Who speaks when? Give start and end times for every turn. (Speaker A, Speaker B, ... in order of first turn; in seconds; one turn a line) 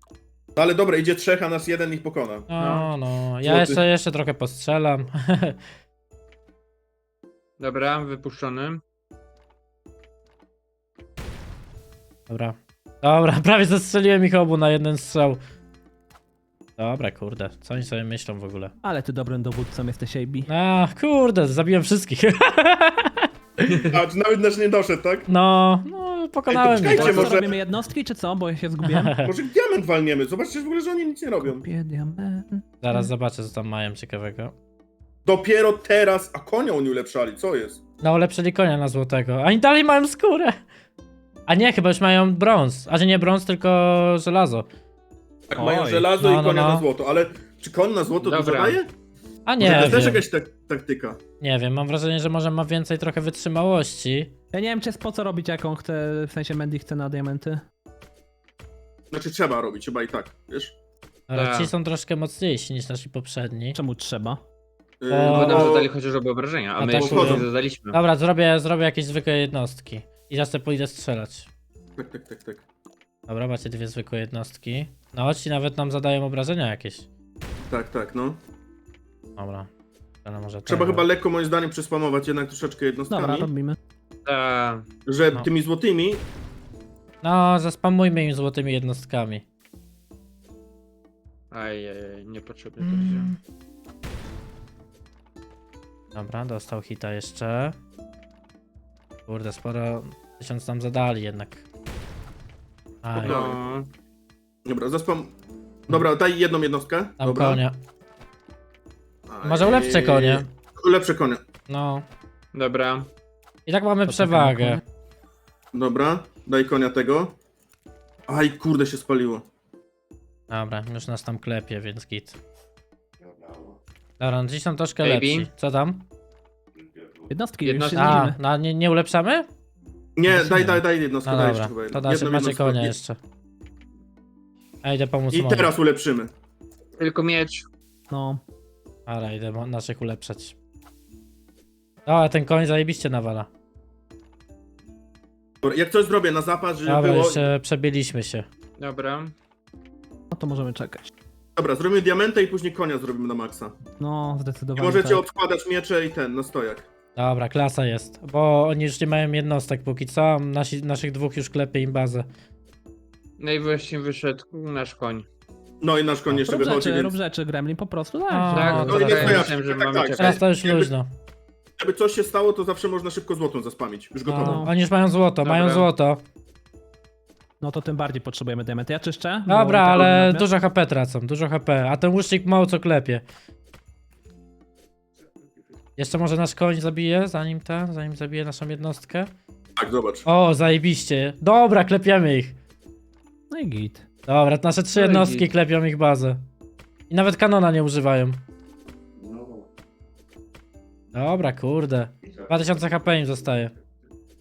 Speaker A: 0.6-2.5
Speaker B: 2.5-5.6
Speaker C: 2.6-2.9
Speaker A: 3.4-3.8
Speaker C: 7.6-8.8
Speaker B: 12.3-15.4
Speaker B: 16.8-18.7
Speaker D: 18.8-20.5
Speaker B: 20.5-23.9
Speaker C: 23.7-23.9
Speaker A: 23.9-25.3
Speaker B: 25.3-27.4
Speaker A: 26.5-27.6
Speaker D: 26.9-29.2
Speaker B: 28.8-29.3
Speaker A: 29.2-31.7
Speaker D: 31.4-33.1
Speaker B: 32.8-34.5
Speaker A: 35.2-37.8
Speaker B: 38.0-40.6
Speaker B: 41.5-44.7
Speaker A: 45.5-48.9
Speaker D: 45.6-46.1
Speaker B: 46.2-46.9
Speaker C: 48.2-48.8
Speaker B: 49.5-50.2
Speaker A: 49.6-51.2
Speaker B: 51.4-54.3
Speaker D: 54.5-57.6
Speaker A: 59.1-60.8
Speaker B: 61.3-63.8
Speaker C: 61.3-61.7
Speaker D: 63.7-64.4
Speaker A: 65.0-65.9
Speaker B: 65.1-65.8
Speaker C: 65.3-68.0
Speaker B: 66.8-71.5
Speaker A: 67.0-67.5
Speaker A: 72.0-72.6
Speaker B: 73.3-77.1
Speaker A: 77.6-78.4
Speaker B: 79.4-79.7
Speaker B: 80.2-81.1
Speaker A: 80.7-83.5
Speaker D: 83.1-83.8
Speaker C: 84.3-84.8
Speaker A: 85.1-86.2
Speaker B: 87.2-89.4
Speaker C: 91.5-93.3
Speaker B: 92.8-93.4
Speaker B: 96.2-97.8
Speaker B: 99.3-101.6
Speaker B: 103.0-103.4
Speaker C: 103.2-103.9
Speaker A: 103.2-103.6
Speaker A: 104.7-105.3
Speaker A: 105.9-107.6
Speaker B: 107.2-107.8
Speaker A: 109.3-111.4
Speaker B: 109.4-110.5
Speaker B: 111.7-112.0
Speaker C: 112.5-113.1
Speaker B: 113.7-114.8
Speaker D: 114.1-114.8
Speaker A: 115.7-117.3
Speaker A: 118.3-119.5
Speaker B: 120.5-122.4
Speaker B: 124.2-126.1
Speaker C: 125.0-125.5
Speaker D: 127.3-128.4
Speaker C: 127.6-128.3
Speaker B: 128.0-129.5
Speaker A: 130.2-132.9
Speaker B: 130.3-133.2
Speaker B: 134.8-135.7
Speaker A: 135.3-136.3
Speaker C: 137.0-137.7
Speaker D: 138.1-138.4
Speaker B: 139.1-140.6
Speaker B: 142.1-143.5
Speaker A: 145.6-147.5
Speaker B: 146.9-148.5
Speaker C: 148.8-149.3
Speaker D: 150.3-151.1
Speaker A: 151.6-153.8
Speaker D: 154.0-155.2
Speaker A: 154.8-156.9
Speaker B: 157.2-162.3
Speaker C: 163.4-165.3
Speaker A: 165.8-167.1
Speaker D: 166.5-169.2
Speaker B: 168.3-169.5
Speaker C: 168.5-170.4
Speaker A: 168.9-170.9
Speaker B: 170.2-171.1
Speaker A: 171.8-174.7
Speaker B: 174.3-176.2
Speaker D: 174.4-174.7
Speaker C: 175.4-175.9
Speaker D: 177.6-180.5
Speaker B: 179.5-183.2
Speaker B: 186.0-189.3
Speaker A: 189.8-190.3
Speaker B: 190.3-192.6
Speaker D: 193.5-194.1
Speaker B: 194.3-196.4
Speaker C: 194.9-195.5
Speaker B: 197.1-198.4
Speaker B: 201.1-203.7